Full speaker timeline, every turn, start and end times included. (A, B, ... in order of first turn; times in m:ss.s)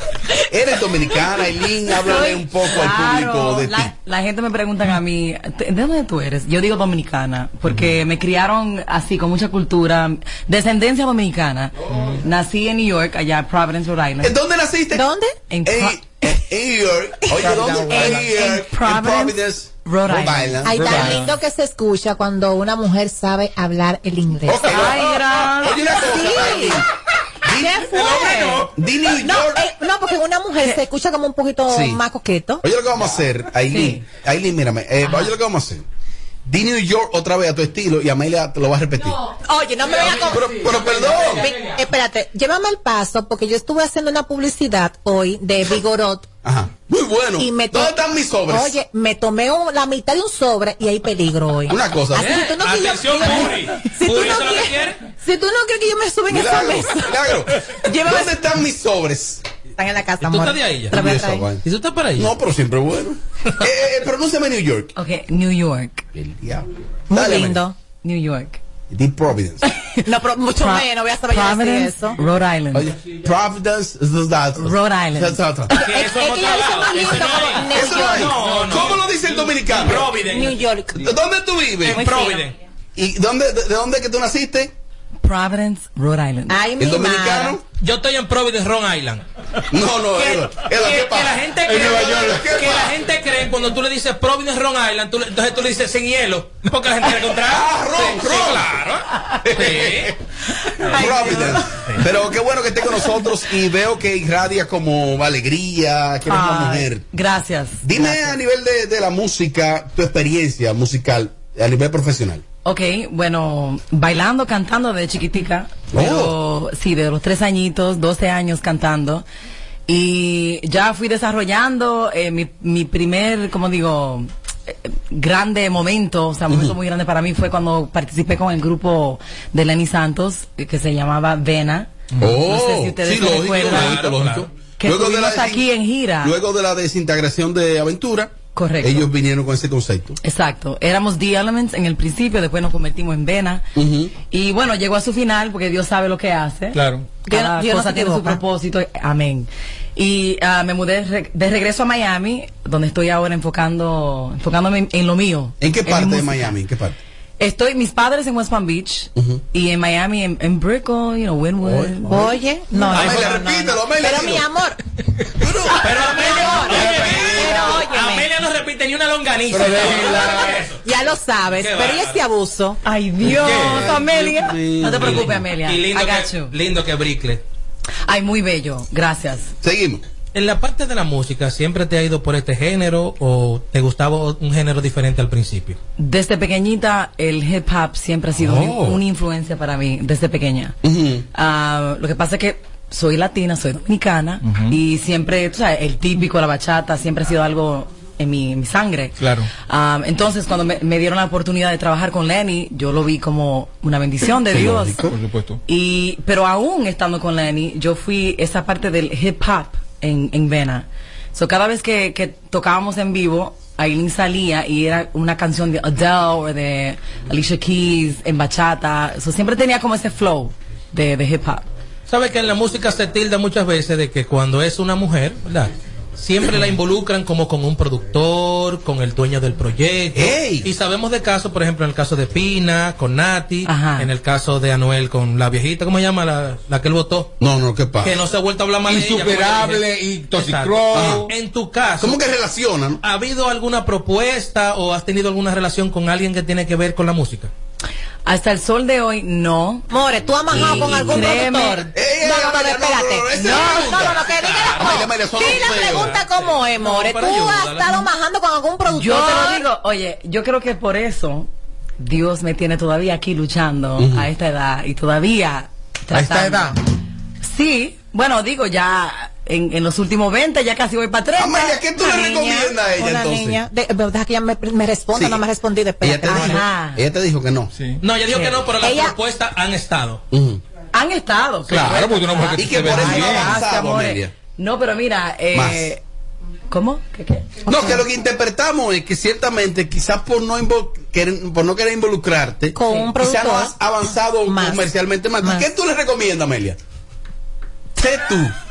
0:00.5-0:03.9 A
0:02.0-0:14.3 B
0:11.9-0:12.2 C
0:14.2-0:15.0 A
0:14.9-0:15.4 D
0:15.5-0:16.0 B
0:15.6-0:21.2 A
0:17.4-0:18.3 C
0:17.8-0:21.0 B
0:20.6-0:24.9 D
0:20.8-0:21.3 C
0:24.5-0:26.9 A
0:24.6-0:26.2 B
0:25.9-0:26.8 D
0:27.4-0:27.8 A
0:27.5-0:32.6 D
0:28.0-0:28.4 E
0:28.7-0:29.6 A
0:31.7-0:32.0 A
0:32.6-0:35.8 A
0:33.7-0:34.0 B
0:36.5-0:39.2 A
0:39.4-0:46.3 D
0:40.2-0:41.5 A
0:46.4-0:48.7 A
0:47.4-0:48.0 D
0:48.5-0:57.1 D
0:51.7-0:52.4 A
0:52.1-0:55.0 E
0:56.3-0:59.4 A
0:57.8-0:58.4 D
0:59.8-1:01.5 D
1:00.2-1:01.0 E
1:00.9-1:01.6 A
1:01.6-1:02.3 E
1:02.2-1:04.9 A
1:05.0-1:06.0 B
1:06.2-1:07.6 A
1:07.1-1:07.8 D
1:08.0-1:08.6 B
1:08.9-1:09.7 A
1:09.7-1:10.0 B
1:10.0-1:12.2 D
1:10.6-1:12.9 B
1:12.7-1:15.7 A
1:14.6-1:15.4 B
1:15.7-1:18.5 D
1:15.7-1:19.0 E
1:17.7-1:20.1 A
1:19.7-1:20.6 E
1:20.2-1:21.0 D
1:21.0-1:22.0 A
1:21.8-1:22.6 E
1:21.9-1:22.5 D
1:23.0-1:24.7 A
1:25.2-1:26.6 B
1:26.5-1:27.6 D
1:26.8-1:27.6 A
1:27.8-1:29.2 E
1:29.7-1:33.0 A
1:30.2-1:40.2 E
1:37.5-1:38.7 A
1:39.4-1:40.1 A
1:40.8-1:47.0 A
1:40.9-1:41.6 B
1:46.3-1:48.4 B
1:47.8-1:52.4 A
1:52.6-1:59.2 B
1:55.9-1:56.4 A
1:59.9-2:14.0 B
2:06.5-2:06.8 A
2:12.2-2:15.7 A
2:13.5-2:14.5 E
2:14.8-2:16.4 B
2:16.2-2:20.2 A
2:18.6-2:19.1 B
2:20.2-2:23.7 B
2:23.8-2:24.2 A
2:24.2-2:36.6 B
2:26.7-2:27.1 C
2:27.3-2:28.4 D
2:35.6-2:37.0 A
2:37.4-2:42.2 B
2:39.2-2:39.4 A
2:41.6-2:44.4 A
2:42.1-2:44.8 D
2:42.9-2:43.3 E
2:45.4-2:47.4 A
2:45.7-2:48.3 D
2:45.8-2:50.8 E
2:49.6-2:50.3 A
2:50.8-2:52.8 D
2:51.6-2:52.2 E
2:52.8-2:56.5 B
2:53.3-2:53.8 E
2:53.4-2:53.8 C
2:53.5-2:55.4 A
2:55.0-2:57.4 E
2:58.1-2:59.5 B
2:59.6-3:00.0 A
3:00.3-3:05.8 E
3:06.0-3:10.8 B
3:08.4-3:09.0 A
3:10.8-3:11.3 A
3:11.3-3:25.1 B
3:14.4-3:14.8 C
3:19.2-3:19.5 C
3:24.4-3:25.1 A
3:25.0-3:25.6 C
3:25.7-3:41.6 B
3:42.1-3:57.3 E
3:50.1-3:50.6 A
3:53.7-3:54.1 B
3:57.4-3:58.2 A
3:58.0-4:02.2 E
3:58.9-4:01.3 C
4:00.9-4:01.3 A
4:02.0-4:03.0 A
4:03.0-4:07.5 E
4:08.3-4:09.8 B
4:09.9-4:19.6 D
4:10.5-4:11.9 B
4:10.5-4:11.3 A
4:11.9-4:14.2 A
4:13.8-4:18.1 E
4:14.8-4:16.1 A
4:18.8-4:21.5 B
4:22.0-4:26.8 B
4:24.0-4:24.3 A
4:26.1-4:26.8 C
4:27.4-4:32.5 B
4:31.4-4:33.6 A
4:32.0-4:36.6 D
4:35.2-4:35.4 A
4:36.0-4:37.7 A
4:36.3-4:37.0 B
4:37.7-4:38.0 C
4:38.0-4:40.2 E
4:38.8-4:39.2 D
4:40.3-4:40.6 A
4:40.9-4:46.0 B
4:41.7-4:43.6 C
4:42.6-4:44.3 A
4:45.5-4:45.9 A
4:46.7-4:48.0 B
4:47.6-4:56.8 A
4:52.8-4:53.7 D
4:54.5-4:54.8 D
4:58.0-4:58.5 A